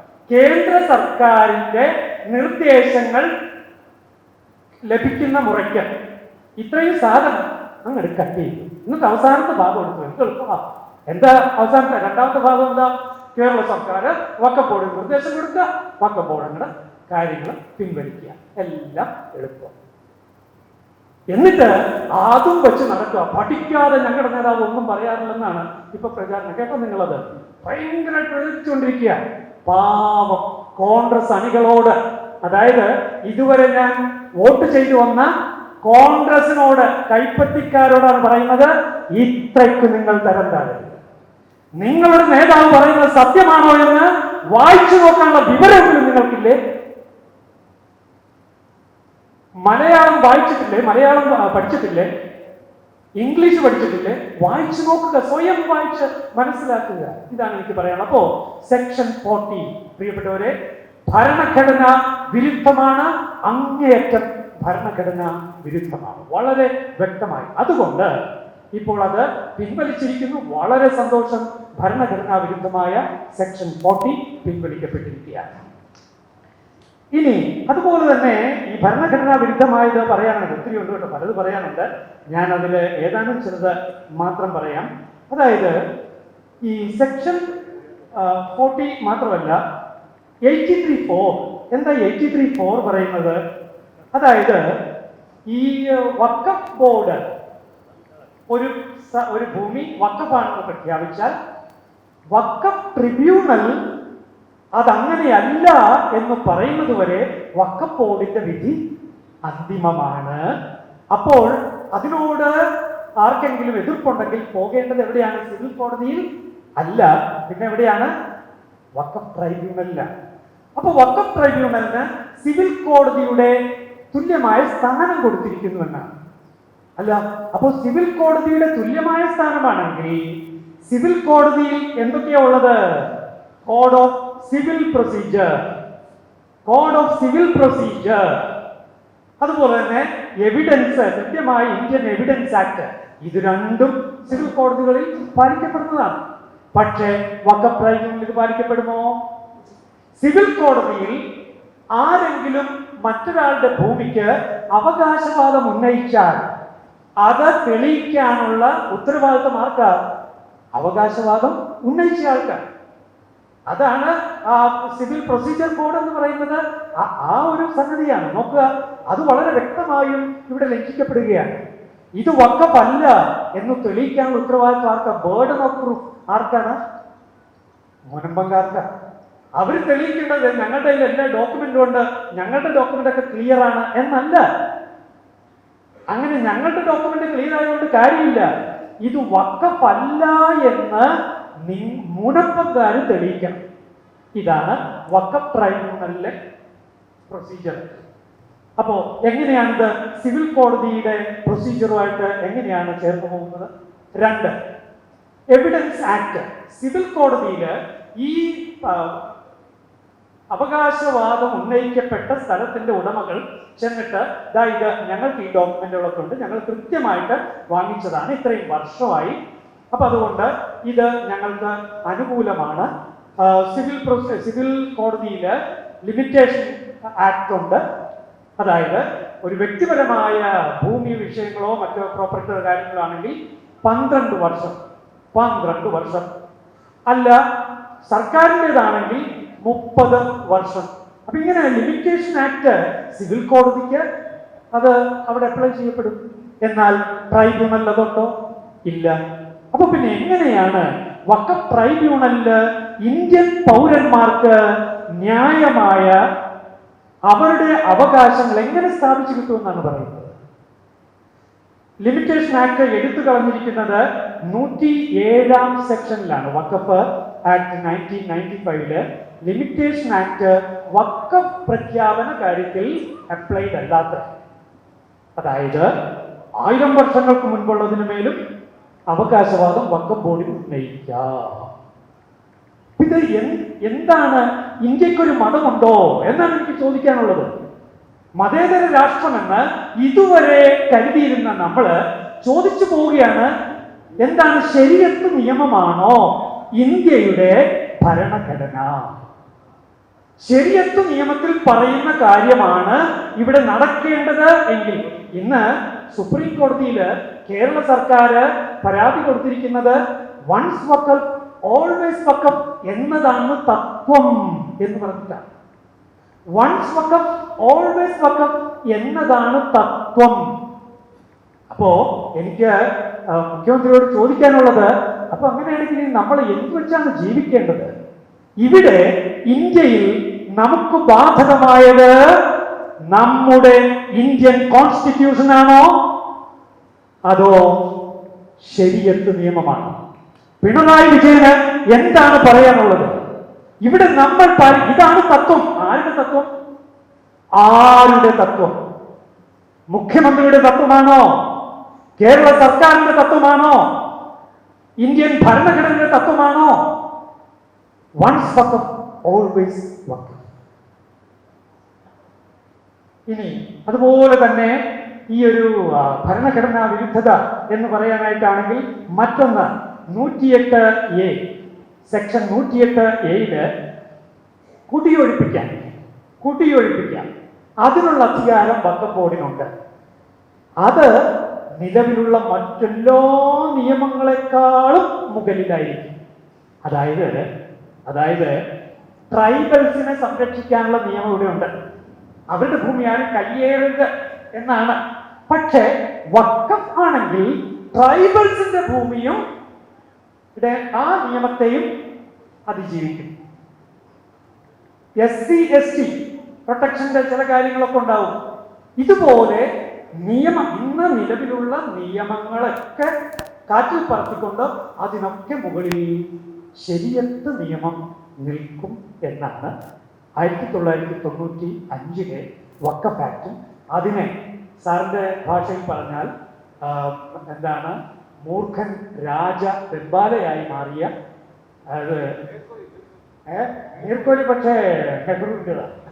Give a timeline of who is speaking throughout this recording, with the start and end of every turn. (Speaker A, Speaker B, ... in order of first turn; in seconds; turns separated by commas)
Speaker A: 0.3-3.3, Speaker A: 4.9-5.9, Speaker A: 6.6-19.7, Speaker A: 21.3-35.3, Speaker A: 35.8-41.0, Speaker A: 41.8-46.6, Speaker A: 49.6-52.1, Speaker A: 53.2-60.5, Speaker A: 61.1-68.1, Speaker A: 68.8-75.5, Speaker A: 77.2-85.7, Speaker A: 86.6-87.4, Speaker A: 88.1-89.6, Speaker A: 90.5-93.4, Speaker A: 94.1-94.6, Speaker A: 95.5-97.2, Speaker A: 98.5-101.3, Speaker A: 102.3-103.7, Speaker A: 104.8-108.8, Speaker A: 109.5-110.4, Speaker A: 111.1-112.5, Speaker A: 113.2-116.2, Speaker A: 116.8-118.1, Speaker A: 119.0-120.1, Speaker A: 120.8-123.5, Speaker A: 124.1-126.1, Speaker A: 127.0-130.3, Speaker A: 130.8-133.1, Speaker A: 133.6-135.6, Speaker A: 136.7-138.4, Speaker A: 139.4-146.2, Speaker A: 146.7-149.1, Speaker A: 150.2-151.2, Speaker A: 152.0-156.5, Speaker A: 157.2-159.9, Speaker A: 160.8-162.6, Speaker A: 163.7-171.6, Speaker A: 172.2-176.8, Speaker A: 178.1-178.8, Speaker A: 179.6-184.4, Speaker A: 186.1-188.5, Speaker A: 189.0-191.1, Speaker A: 191.7-193.6, Speaker A: 194.4-196.3, Speaker A: 197.3-198.0, Speaker A: 198.8-204.5, Speaker A: 205.5-209.2, Speaker A: 210.5-219.4, Speaker A: 219.9-222.9, Speaker A: 223.4-227.8, Speaker A: 228.6-234.8, Speaker A: 235.3-236.3, Speaker A: 237.1-237.3, Speaker A: 238.0-244.0, Speaker A: 244.7-248.3, Speaker A: 248.9-249.1, Speaker A: 249.7-254.5, Speaker A: 255.2-256.1, Speaker A: 257.3-260.4, Speaker A: 262.0-274.3, Speaker A: 275.4-275.9, Speaker A: 276.6-278.4, Speaker A: 279.1-281.7, Speaker A: 283.0-287.5, Speaker A: 288.4-293.5, Speaker A: 294.2-299.2, Speaker A: 300.4-309.9, Speaker A: 310.5-315.5, Speaker A: 316.6-320.4, Speaker A: 321.7-322.7, Speaker A: 323.3-327.9, Speaker A: 328.6-332.1, Speaker A: 333.1-336.0, Speaker A: 337.3-337.6, Speaker A: 338.6-339.9, Speaker A: 340.6-343.1, Speaker A: 343.8-346.5, Speaker A: 347.6-348.8, Speaker A: 349.9-351.3, Speaker A: 352.2-353.8, Speaker A: 355.0-356.8, Speaker A: 358.2-360.4, Speaker A: 363.3-364.7, Speaker A: 365.3-371.4, Speaker A: 372.0-373.6, Speaker A: 374.9-377.3, Speaker A: 377.8-379.7, Speaker A: 380.8-381.1, Speaker A: 381.8-386.1, Speaker A: 386.8-387.4, Speaker A: 388.1-388.5, Speaker A: 389.3-391.7, Speaker A: 392.5-395.0, Speaker A: 395.5-399.4, Speaker A: 400.6-401.9, Speaker A: 402.7-403.3, Speaker A: 405.2-406.1, Speaker A: 406.7-408.4, Speaker A: 409.0-409.6, Speaker A: 410.2-413.1, Speaker A: 413.7-416.2, Speaker A: 416.8-419.7, Speaker A: 420.4-424.3, Speaker A: 424.8-426.3, Speaker A: 426.8-431.1, Speaker A: 431.9-432.3, Speaker A: 433.5-435.9